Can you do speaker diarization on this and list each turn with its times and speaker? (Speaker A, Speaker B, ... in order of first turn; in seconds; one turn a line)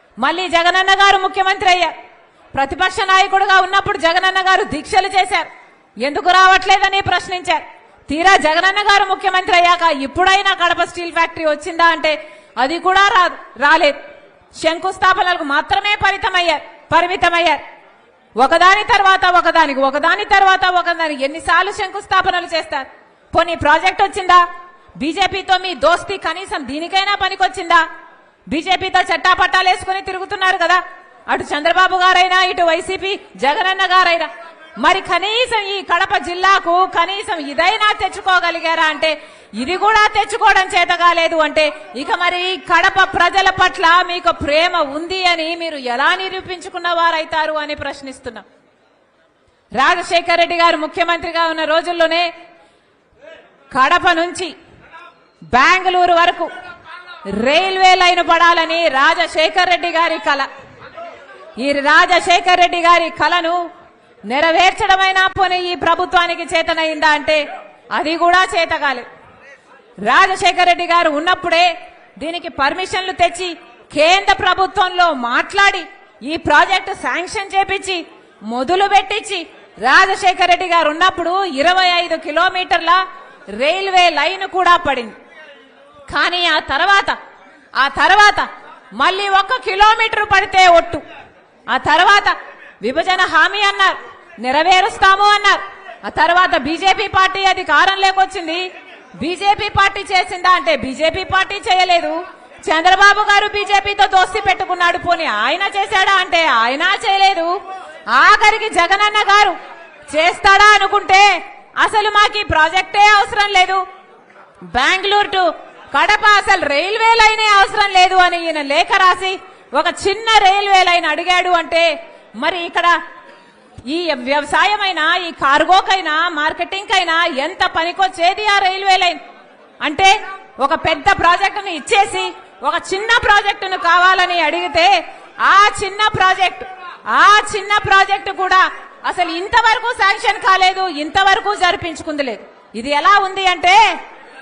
Speaker A: 0.2-1.9
Speaker A: 2.5-5.5
Speaker A: 6.0-14.0
Speaker A: 14.6-17.6
Speaker A: 18.4-24.4
Speaker A: 25.0-27.8
Speaker A: 28.5-48.4
Speaker A: 49.8-52.3
Speaker A: 53.7-54.5
Speaker A: 55.5-56.5
Speaker A: 57.3-60.5
Speaker A: 61.6-63.6
Speaker A: 64.3-67.4
Speaker A: 67.9-69.1
Speaker A: 70.0-83.0
Speaker A: 83.5-85.1
Speaker A: 86.1-87.2
Speaker A: 87.7-91.0
Speaker A: 91.7-98.7
Speaker A: 99.2-107.5
Speaker A: 108.1-109.6
Speaker A: 110.1-113.8
Speaker A: 114.7-123.0
Speaker A: 123.9-129.2
Speaker A: 129.8-143.9